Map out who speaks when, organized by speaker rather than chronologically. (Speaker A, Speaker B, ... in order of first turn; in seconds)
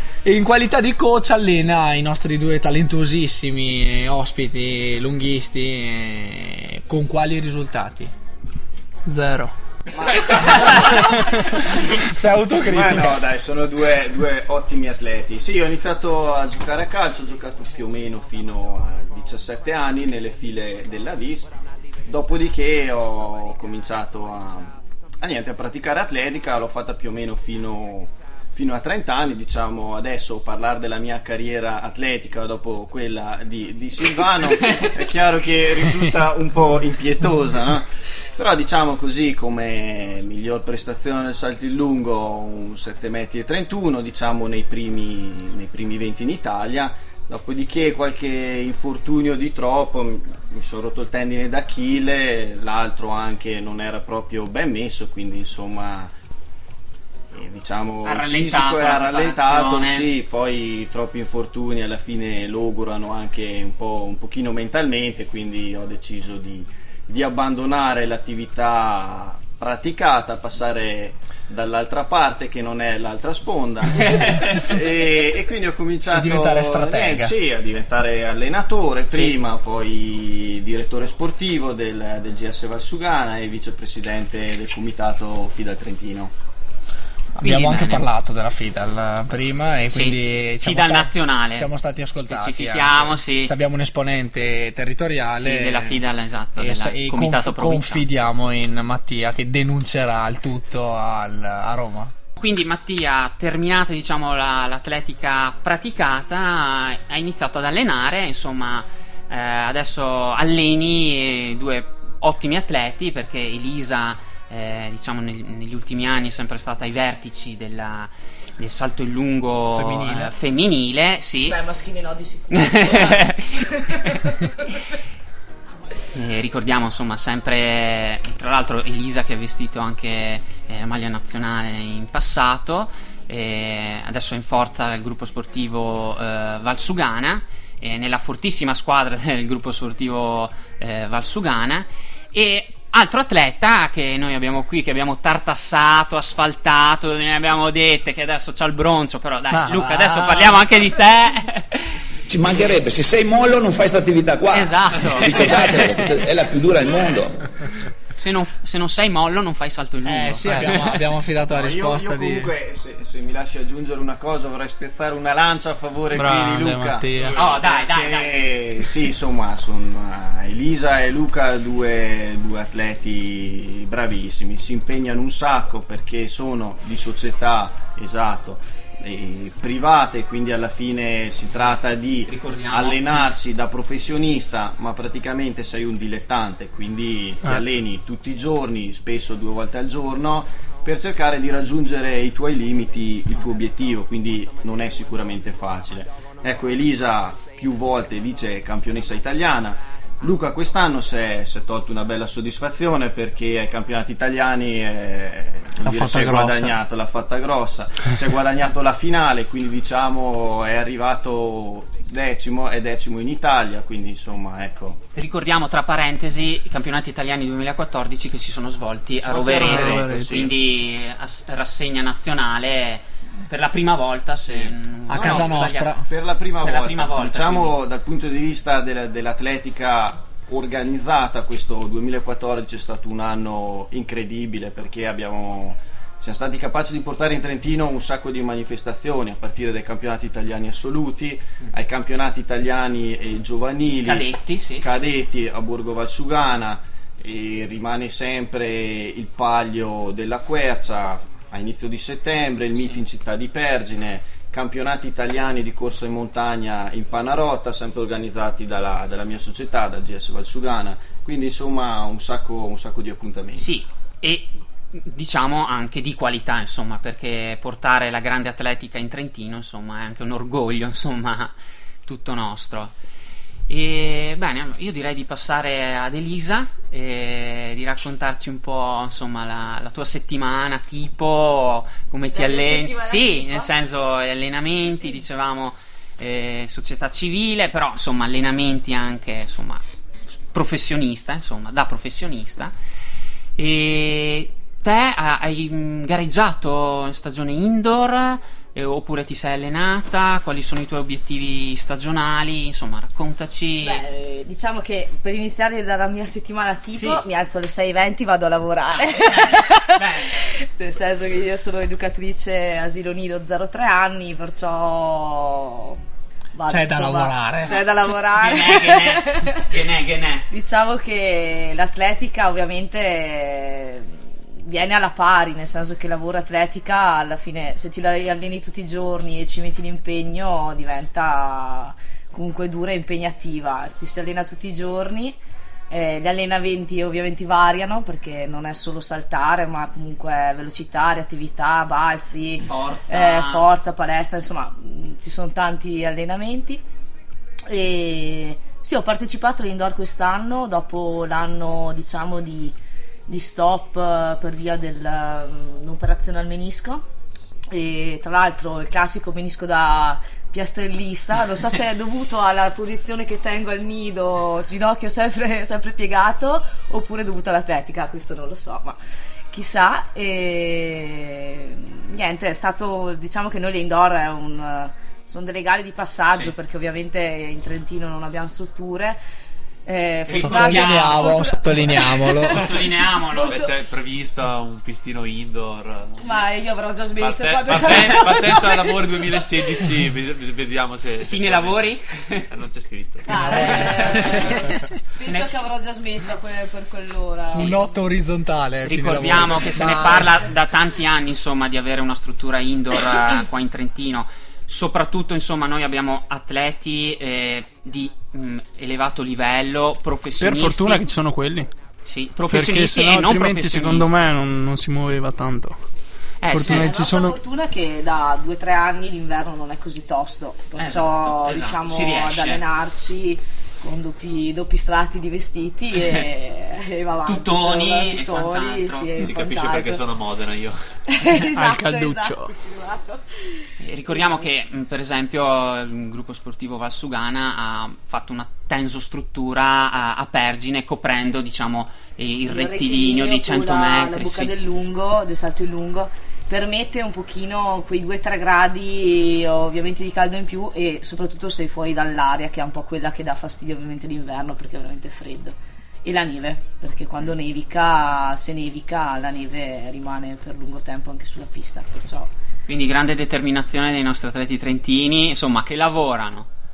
Speaker A: 0.2-8.1, 11.1-13.2, 76.1-77.4, 87.3-96.0, 96.6-102.1, 119.7-120.3, 160.0-162.5, 205.8-206.8, 225.1-226.0, 316.6-317.8, 380.3-382.7, 393.3-394.2, 397.5-400.4
Speaker B: 9.1-9.5, 149.5-150.6, 166.1-167.4, 219.5-220.5, 410.4-411.7, 412.5-415.8, 416.5-417.4, 431.5-432.5
Speaker C: 9.9-11.0, 12.7-21.5, 22.0-56.1, 57.3-86.3, 161.5-215.0, 219.2-220.5, 224.5-263.7
Speaker D: 34.7-34.9, 58.0-60.1, 74.0-74.7, 79.1-79.4, 87.4-88.1, 89.9-91.7, 92.3-93.5, 95.4-98.1, 102.3-121.6, 122.5-123.5, 126.1-152.0, 154.5-156.1, 158.1-161.0, 167.3-168.4, 182.2-183.3, 215.1-226.0, 226.6-227.8, 244.0-244.9, 263.6-271.5, 272.1-272.9, 273.7-289.8, 290.5-292.7, 293.6-304.0, 306.9-307.2, 309.9-310.3, 317.6-320.5, 342.6-343.6, 380.3-381.5, 382.4-383.6, 391.2-392.4, 394.0-394.3, 395.2-395.5, 398.8-411.1, 412.0-414.3, 416.4-416.9, 420.8-422.6, 427.2-429.1, 433.8-444.6, 462.7-466.5
Speaker E: 121.5-124.6, 282.3-283.7, 303.8-316.0, 316.5-319.8, 320.5-335.4, 335.9-346.8, 347.7-352.7, 353.3-357.0, 357.7-369.0, 369.5-379.2, 379.9-383.7, 386.2-389.7, 393.3-397.8, 416.6-430.0, 431.1-433.6, 434.1-434.4, 442.5-462.3
Speaker F: 155.2-157.2
Speaker G: 383.4-386.5, 387.2-391.8, 392.5-394.5, 429.2-430.8